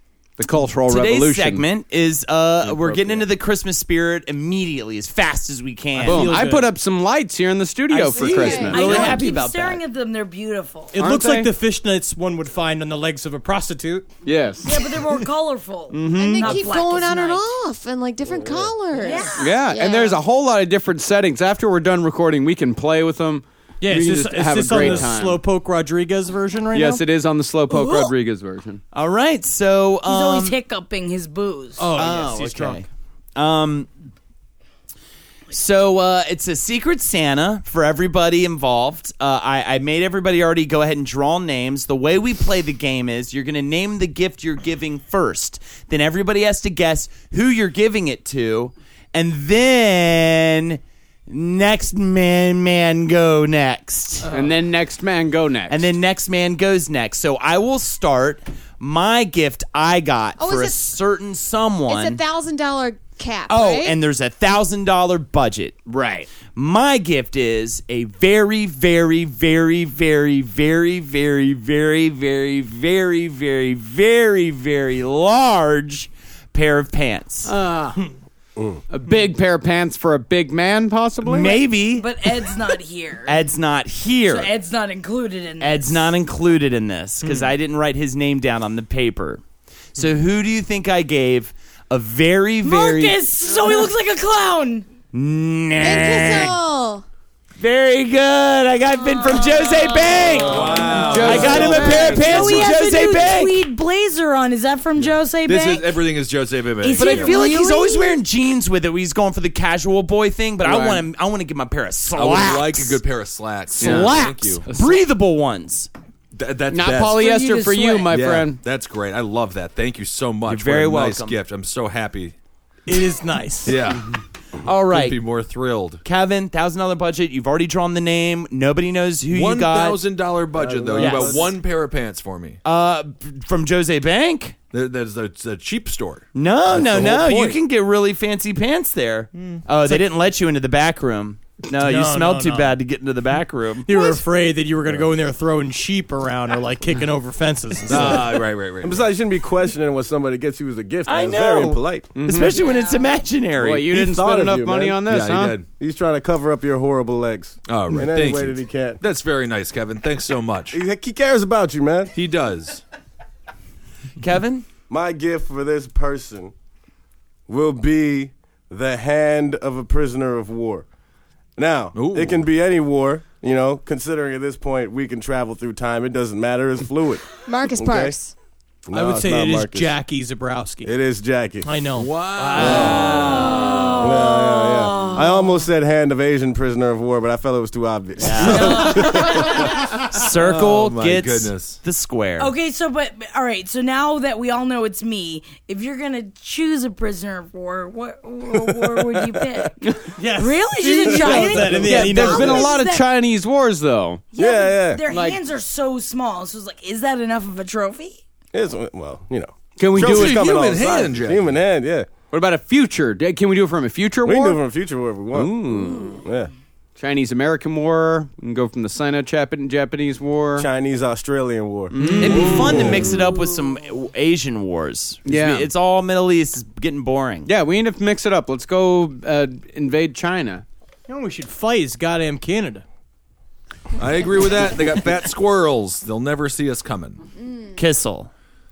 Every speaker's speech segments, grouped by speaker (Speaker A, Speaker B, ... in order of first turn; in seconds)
Speaker A: 0.4-1.7, 2.6-3.3, 6.0-9.2, 11.0-11.5, 14.2-14.8, 15.9-16.6, 19.4-25.4, 26.7-28.8, 54.3-55.8, 65.9-66.3, 77.5-78.0, 78.9-81.6, 87.3-87.5, 101.0-102.5, 113.7-115.0, 116.7-118.6, 152.2-152.6, 153.6-155.6, 201.6-204.2, 205.1-205.4, 209.8-210.6, 212.3-214.6, 215.3-216.2, 217.0-220.7, 221.9-222.9, 225.2-225.7, 227.5-230.7
Speaker B: 0.9-6.4, 7.9-9.8, 28.9-30.6, 31.9-33.9, 35.5-54.4, 55.7-62.2, 63.5-77.5, 81.2-82.1, 83.3-84.5, 85.6-89.4, 90.0-93.7, 95.1-96.5, 97.6-103.6, 107.0-113.0, 113.8-115.9, 120.5-121.4, 124.7-125.2, 126.0-130.0, 130.9-131.5, 132.6-134.6, 136.3-144.1, 151.1-153.9, 164.2-164.7, 188.2-192.5, 222.2-227.5, 237.8-238.3
Speaker C: 6.0-6.7, 10.9-14.1, 23.8-27.0, 31.8-32.9, 122.9-123.8, 141.8-142.8, 143.8-148.3, 178.9-180.9, 181.6-183.3, 200.2-202.7, 222.0-222.3, 231.1-232.8
Speaker D: 8.1-8.9, 16.1-20.2, 60.4-61.0, 61.9-64.0, 95.8-97.0, 99.5-100.1, 177.4-178.3
Speaker E: 8.6-10.9, 14.6-17.5, 18.9-19.6, 27.7-28.1, 30.1-31.9, 82.0-83.4, 84.3-86.1, 92.6-94.9, 101.4-106.0, 106.8-108.2, 117.1-118.1, 152.3-153.0, 183.0-185.5, 188.4-189.5, 192.4-203.1, 204.3-208.2
Speaker F: 18.2-18.7, 130.5-131.5, 148.8-152.1, 153.9-155.0, 155.7-159.0, 160.7-162.1, 164.9-166.5, 167.5-170.9, 171.6-178.2, 178.9-179.9, 180.8-181.7, 182.5-183.5, 184.0-189.8, 198.7-199.7, 201.3-201.8, 204.4-205.0, 208.5-212.1, 214.2-216.5, 220.6-223.1
Speaker G: 100.4-102.7, 105.0-107.5, 110.7-111.0, 112.1-114.7, 116.3-117.3, 118.1-122.3, 123.7-124.1, 124.9-126.0, 129.3-132.6, 134.7-137.6, 139.4-139.6, 147.9-149.1, 155.1-155.7, 157.7-160.8, 162.2-162.8, 171.9-172.5, 182.0-184.1, 190.2-191.8, 210.0-211.6, 234.0-237.2